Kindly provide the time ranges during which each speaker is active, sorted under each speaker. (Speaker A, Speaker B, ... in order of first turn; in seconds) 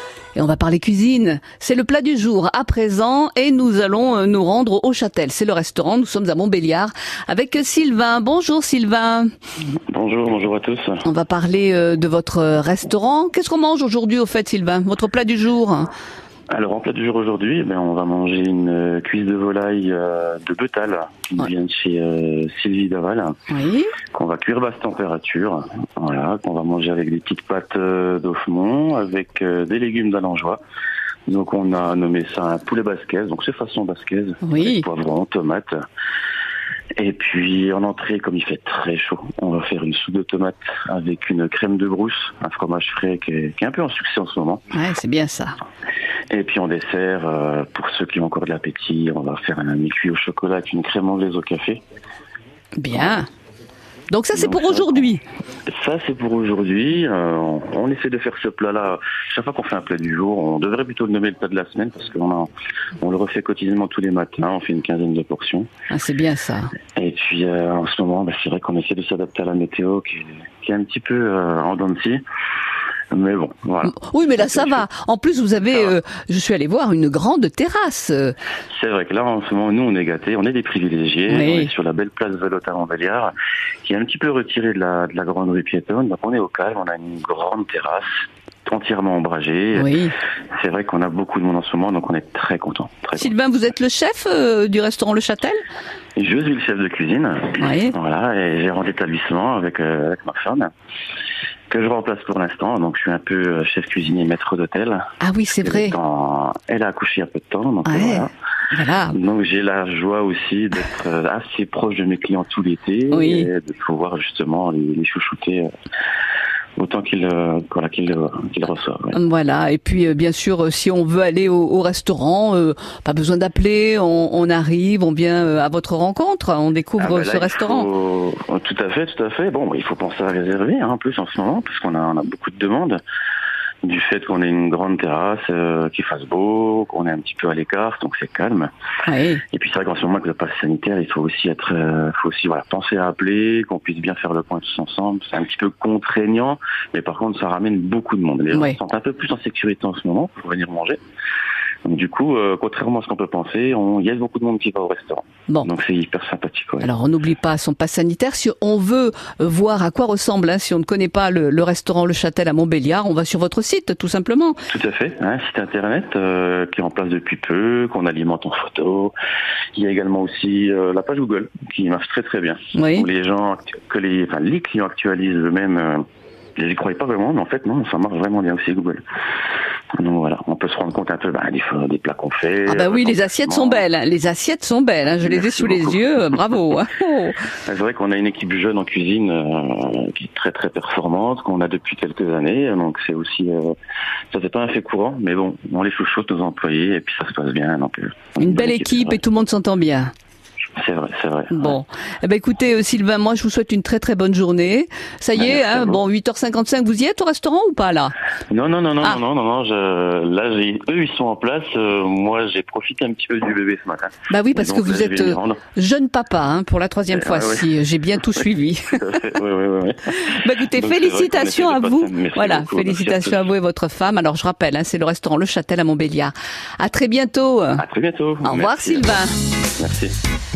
Speaker A: 0.3-9.3, 11.0-15.9, 23.5-23.9, 34.4-34.9, 44.7-45.6, 52.8-53.3, 54.1-55.2, 65.9-66.7, 73.8-78.3, 81.3-81.7, 89.7-90.1, 93.2-95.6, 97.6-97.9, 105.2-105.9, 107.8-109.2, 113.1-113.5, 119.1-127.9, 139.1-139.4, 148.5-148.8, 156.8-164.6, 172.7-173.1, 182.7-187.4, 198.4-200.1, 201.5-208.1, 214.3-219.0, 220.1-227.8, 228.4-229.3
Speaker B: 9.9-11.0, 16.5-23.3, 24.1-30.6, 31.3-35.8, 37.0-44.6, 46.3-51.8, 54.3-55.0, 55.8-62.5, 63.0-65.7, 67.0-72.2, 73.1-74.8, 75.7-75.9, 78.7-83.3, 83.8-88.1, 88.7-89.9, 90.6-93.3, 96.2-100.7, 101.7-105.1, 105.6-108.3, 109.1-115.7, 116.8-119.2, 127.0-133.0, 133.8-138.7, 139.5-151.0, 151.8-156.9, 164.7-169.1, 169.7-176.0, 176.6-179.0, 180.0-183.8, 185.2-186.4, 187.7-193.8, 194.3-199.2, 200.8-201.8, 205.3-206.0, 208.5-215.6, 217.1-217.7, 218.9-223.5, 227.8-229.2, 229.8-230.1